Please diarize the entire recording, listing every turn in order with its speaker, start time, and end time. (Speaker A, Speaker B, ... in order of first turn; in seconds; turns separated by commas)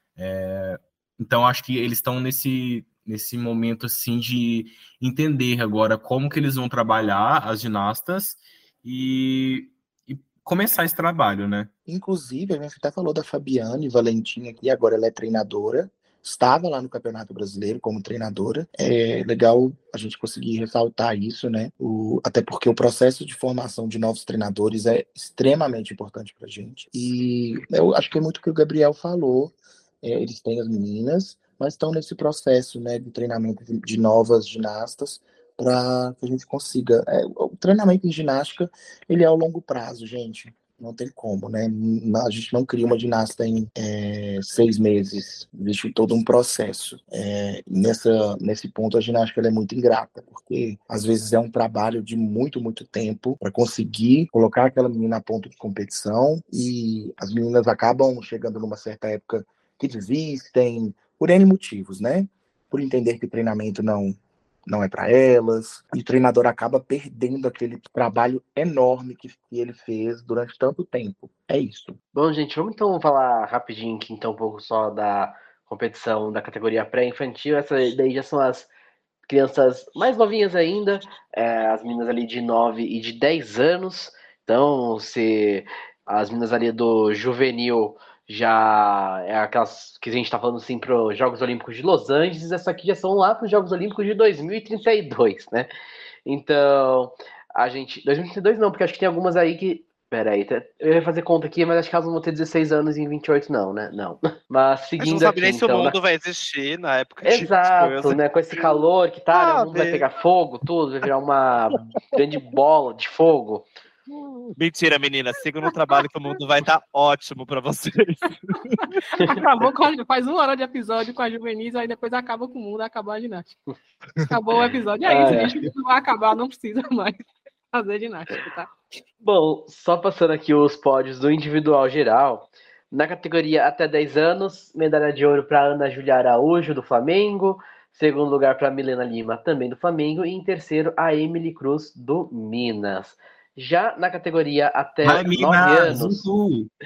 Speaker A: 0.2-11.7, Speaker B: 11.9-72.0, Speaker C: 72.1-78.7, Speaker C: 79.3-95.7, Speaker C: 96.2-106.0, Speaker D: 105.0-108.2, Speaker C: 107.2-113.7, Speaker D: 109.3-110.0, Speaker D: 114.5-118.8, Speaker E: 115.7-116.0, Speaker E: 118.8-123.5, Speaker E: 124.3-127.2, Speaker C: 125.0-125.5, Speaker E: 127.7-128.7, Speaker C: 129.2-146.2, Speaker A: 145.0-146.7